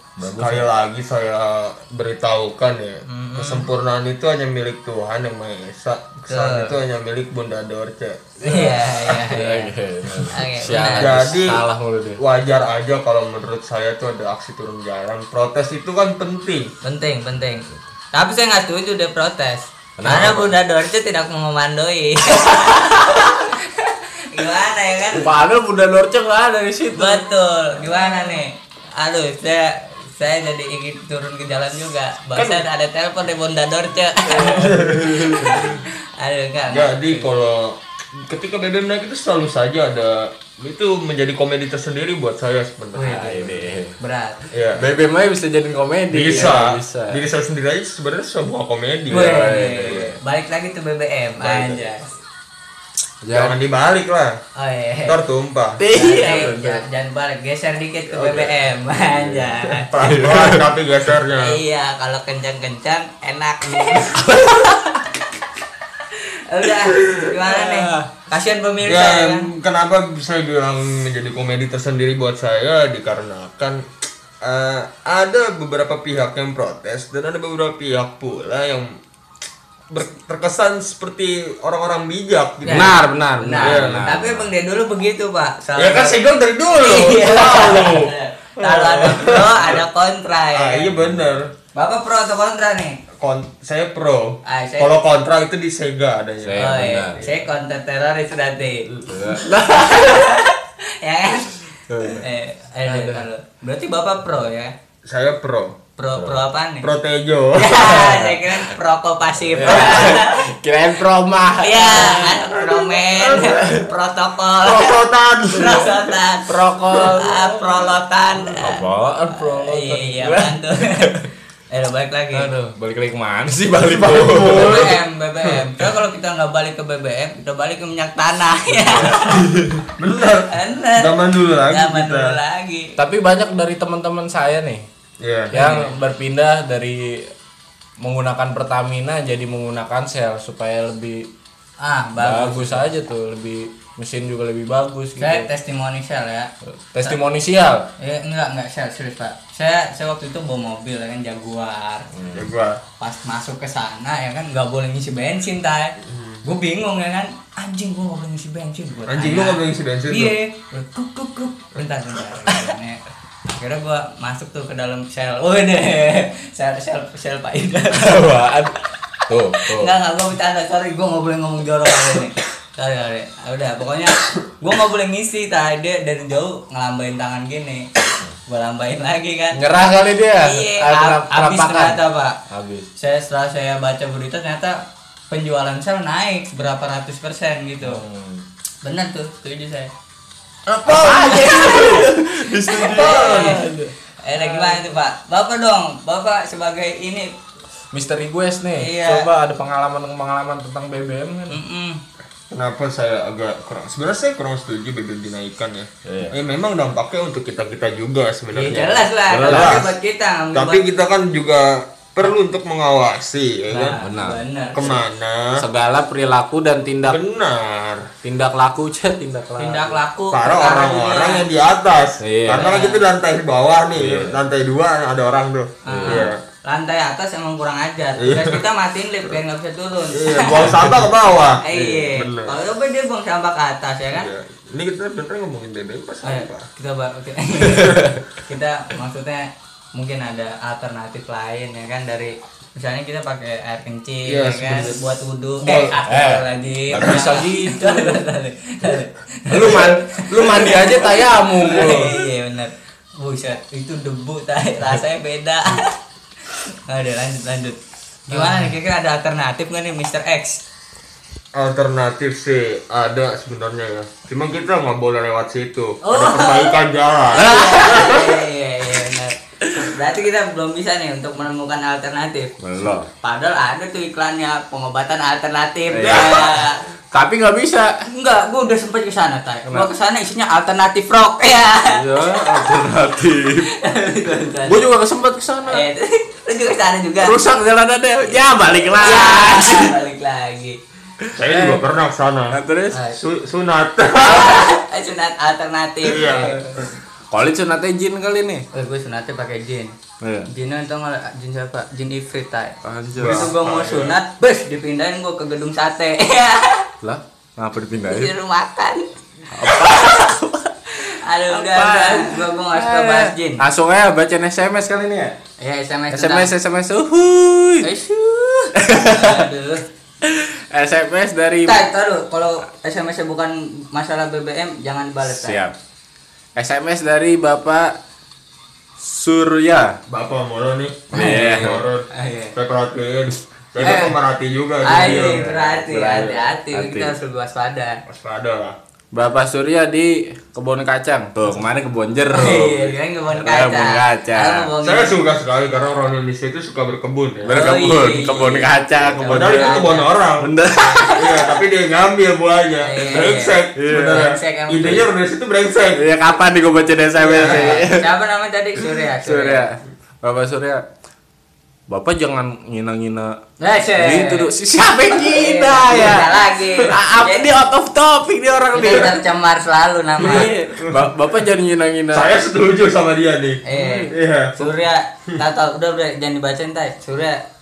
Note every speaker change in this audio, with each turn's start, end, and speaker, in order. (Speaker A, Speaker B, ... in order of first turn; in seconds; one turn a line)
Speaker A: 0.2-0.7
Speaker B: 0.3-8.9
Speaker C: 3.1-3.7
Speaker C: 6.3-6.8
Speaker C: 8.4-9.7
Speaker A: 8.6-12.2
Speaker C: 10.2-11.3
Speaker B: 11.0-11.6
Speaker B: 12.2-16.7
Speaker C: 16.8-25.3
Speaker A: 20.0-20.6
Speaker A: 22.5-23.3
Speaker A: 25.1-27.2
Speaker C: 26.9-34.7
Speaker B: 32.4-32.6
Speaker B: 34.3-35.8
Speaker A: 34.3-35.8
Speaker C: 35.4-37.3
Speaker B: 36.7-43.5
Speaker C: 43.0-43.5
Speaker A: 43.1-44.0
Speaker C: 44.0-44.4
Speaker B: 44.5-44.9
Speaker A: 44.8-47.2
Speaker B: 46.1-50.1
Speaker A: 49.1-50.2
Speaker C: 49.1-52.1
Speaker B: 51.4-51.8
Speaker A: 53.2-53.6
Speaker B: 53.3-54.3
Speaker C: 54.6-55.2
Speaker B: 55.1-55.8
Speaker A: 55.8-56.8
Speaker C: 55.9-59.9
Speaker B: 58.1-58.5
Speaker A: 58.9-60.7
Speaker B: 59.8-61.6
Speaker C: 61.4-64.2
Speaker A: 64.1-65.0
Speaker C: 66.1-69.5
Speaker A: 67.4-68.1
Speaker B: 68.8-73.8
Speaker B: 74.4-78.9
Speaker B: 79.9-83.0
Speaker C: 82.7-86.2
Speaker A: 82.7-84.5
Speaker B: 83.5-84.0
Speaker B: 85.8-89.8
Speaker C: 86.7-90.9
Speaker B: 90.5-91.5
Speaker C: 91.8-93.0
Speaker B: 93.2-97.3
Speaker C: 94.5-95.0
Speaker A: 96.4-97.3
Speaker C: 96.6-98.9
Speaker A: 99.1-100.3
Speaker C: 99.4-104.7
Speaker A: 101.9-102.3
Speaker A: 102.8-103.2
Speaker B: 105.0-105.7
Speaker C: 106.0-106.9
Speaker A: 106.2-106.5
Speaker B: 106.8-108.1
Speaker C: 107.6-110.5
Speaker A: 108.0-108.6
Speaker A: 109.5-112.5
Speaker B: 109.6-110.2
Speaker C: 111.6-115.0
Speaker B: 112.5-113.9
Speaker B: 114.6-116.1
Speaker C: 115.5-121.2
Speaker A: 116.5-117.8
Speaker A: 118.4-121.3
Speaker C: 121.7-122.5
Speaker A: 122.3-124.9
Speaker B: 123.9-125.7
Speaker C: 124.6-129.5
Speaker A: 128.8-129.5
Speaker B: 129.3-132.4
Speaker C: 130.5-131.2
Speaker C: 131.7-132.9
Speaker A: 133.0-134.8
Speaker B: 135.2-135.9
Speaker A: 135.5-137.3
Speaker A: 138.0-141.3
Speaker C: 141.8-142.9
Speaker A: 142.2-145.5
Speaker C: 145.2-146.5
Speaker A: 146.9-147.9
Speaker C: 148.0-152.1
Speaker A: 152.1-152.5
Speaker B: 152.3-152.8
Speaker C: 153.0-168.2
Speaker B: 156.0-156.4
Speaker B: 159.1-160.4
Speaker A: 167.9-169.9
Speaker C: 169.6-177.8
Speaker C: 178.5-179.8
Speaker A: 179.5-182.9
Speaker C: 180.4-182.3
Speaker C: 183.0-184.8
Speaker C: 185.3-188.0
Speaker A: 187.8-188.4
Speaker C: 188.8-189.9
Speaker B: 190.7-192.1
Speaker A: 190.9-195.0
Speaker C: 191.4-193.7
Speaker B: 192.8-193.6
Speaker C: 194.2-197.3
Speaker A: 197.9-201.6
Speaker C: 198.8-199.3
Speaker C: 201.5-202.0
Speaker B: 202.5-209.9
Speaker A: 206.1-206.3
Speaker C: 208.5-210.8
Speaker A: 209.3-209.9
Speaker B: 210.5-214.0
Speaker C: 213.7-215.0
Speaker A: 214.0-214.4
Speaker B: 214.7-215.6
Speaker A: 215.6-217.2
Speaker B: 217.0-218.1
Speaker A: 218.2-220.0
Speaker C: 219.6-221.5
Speaker B: 220.3-226.4
Speaker A: 222.2-222.8
Speaker C: 222.6-223.0
Speaker A: 223.9-224.4
Speaker C: 225.8-230.7
Speaker A: 225.9-226.3
Speaker B: 228.2-228.6
Speaker B: 230.1-232.6
Speaker C: 231.6-234.3
Speaker B: 234.1-236.7
Speaker C: 236.2-256.0
Speaker B: 237.7-238.0
Speaker A: 237.7-238.2
Speaker B: 244.3-246.0
Speaker A: 245.8-248.2
Speaker B: 246.9-247.3
Speaker A: 249.5-252.2
Speaker C: 256.9-260.6
Speaker A: 258.3-258.7
Speaker B: 261.6-268.3
Speaker C: 266.0-266.8
Speaker C: 267.3-272.6
Speaker A: 267.4-268.2
Speaker A: 272.6-273.1
Speaker C: 273.1-276.8
Speaker A: 275.9-278.0
Speaker C: 278.1-282.7
Speaker A: 281.9-283.7
Speaker C: 283.7-284.9
Speaker A: 284.6-285.8
Speaker C: 285.7-287.4
Speaker A: 287.2-290.0
Speaker C: 288.9-290.8
Speaker A: 291.2-291.8
Speaker B: 291.4-292.6
Speaker A: 292.5-293.0
Speaker C: 292.9-293.2
Speaker B: 293.1-294.7
Speaker C: 294.2-296.6
Speaker B: 296.0-296.9
Speaker A: 297.3-298.6
Speaker C: 298.7-299.9
Speaker A: 300.2-300.5
Speaker C: 300.5-306.9
Speaker A: 302.8-303.5
Speaker B: 303.2-304.2
Speaker A: 307.0-308.3
Speaker C: 308.0-309.0
Speaker A: 309.5-310.7
Speaker C: 311.1-313.6
Speaker A: 311.5-315.4
Speaker C: 315.6-316.5
Speaker A: 316.1-317.9
Speaker C: 317.8-319.9
Speaker A: 318.8-319.5
Speaker A: 320.2-321.8
Speaker C: 321.6-325.6
Speaker A: 325.2-325.7
Speaker A: 326.6-327.9
Speaker A: 329.0-329.9
Speaker B: 330.1-336.6
Speaker A: 331.1-331.9
Speaker C: 331.1-332.5
Speaker C: 333.8-334.1
Speaker C: 334.8-338.0
Speaker A: 334.9-336.2
Speaker A: 336.7-337.2
Speaker B: 338.1-338.8
Speaker A: 339.1-344.7
Speaker C: 342.3-345.2
Speaker B: 344.8-347.6
Speaker A: 347.4-351.3
Speaker C: 347.5-350.1
Speaker B: 349.2-356.0
Speaker C: 352.8-355.1
Speaker A: 353.8-354.3
Speaker A: 355.9-358.1
Speaker B: 357.2-357.8
Speaker C: 357.4-359.7
Speaker A: 358.8-360.8
Speaker A: 361.9-363.3
Speaker C: 363.6-364.5
Speaker A: 364.0-369.2
Speaker C: 365.1-367.5
Speaker C: 368.7-370.5
Speaker A: 370.2-372.4
Speaker B: 370.2-371.0
Speaker B: 372.1-374.7
Speaker C: 373.7-377.4
Speaker A: 373.7-374.1